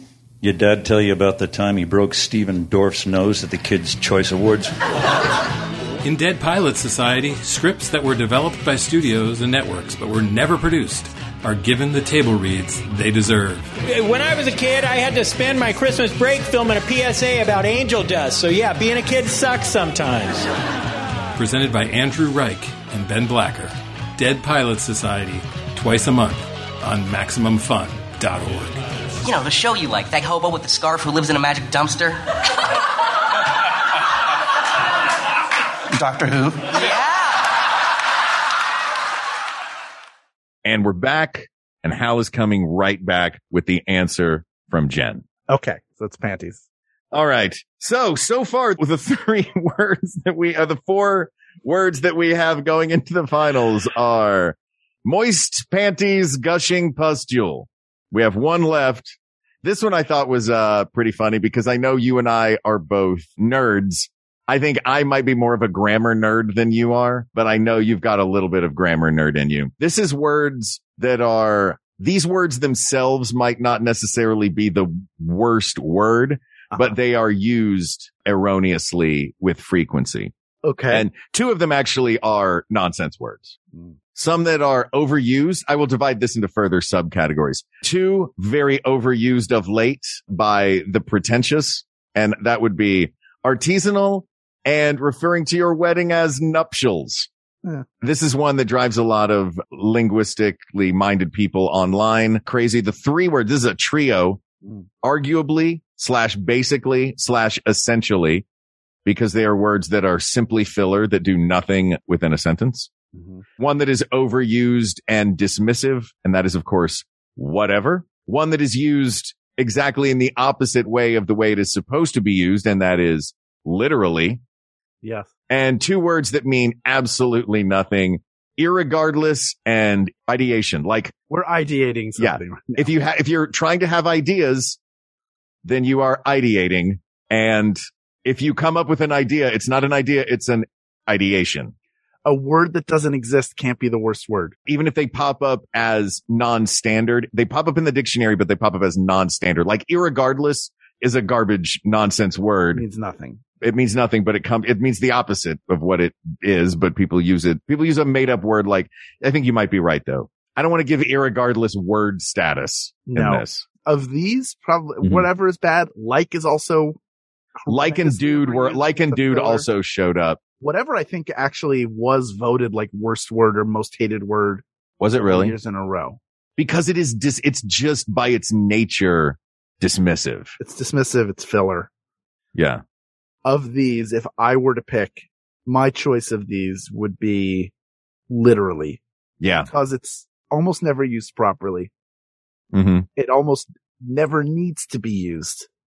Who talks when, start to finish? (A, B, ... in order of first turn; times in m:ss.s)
0:00.4-0:04.7 A
0:06.0-0:13.7 B
0:13.8-0:20.5 C
0:21.4-0:28.8 B
0:29.2-0:32.2 D
0:40.6-0:45.2 E
0:45.5-0:46.6 F
0:47.1-1:20.3 E
1:20.6-1:21.1 F
1:20.9-1:23.6 E
1:24.1-1:37.3 E
1:38.0-1:44.4 E
1:45.0-1:48.4 E
1:49.0-1:52.9 E
1:53.1-1:53.4 F
1:53.6-2:04.4 E
2:05.0-2:05.3 F
2:05.5-2:11.1 E
2:11.3-2:12.9 F
2:12.2-2:14.8 E
2:15.6-2:21.7 E
2:22.2-2:24.6 F
2:24.7-2:32.8 E
2:32.7-2:33.4 F
2:33.6-2:43.6 E
2:43.1-2:47.0 F
2:45.0-2:45.2 E
2:47.6-2:49.7 F
2:47.7-2:50.4 E
2:50.6-2:54.6 F
2:55.0-2:55.5 E
2:55.2-2:56.2 F
2:56.6-3:00.6 E
3:00.6-3:01.9 F
3:02.5-3:02.8 E
3:03.4-3:07.7 F
3:08.3-3:09.0 F
3:09.4-3:09.7 E
3:09.6-3:11.9 F
3:12.7-3:13.0 E
3:13.2-3:15.7 F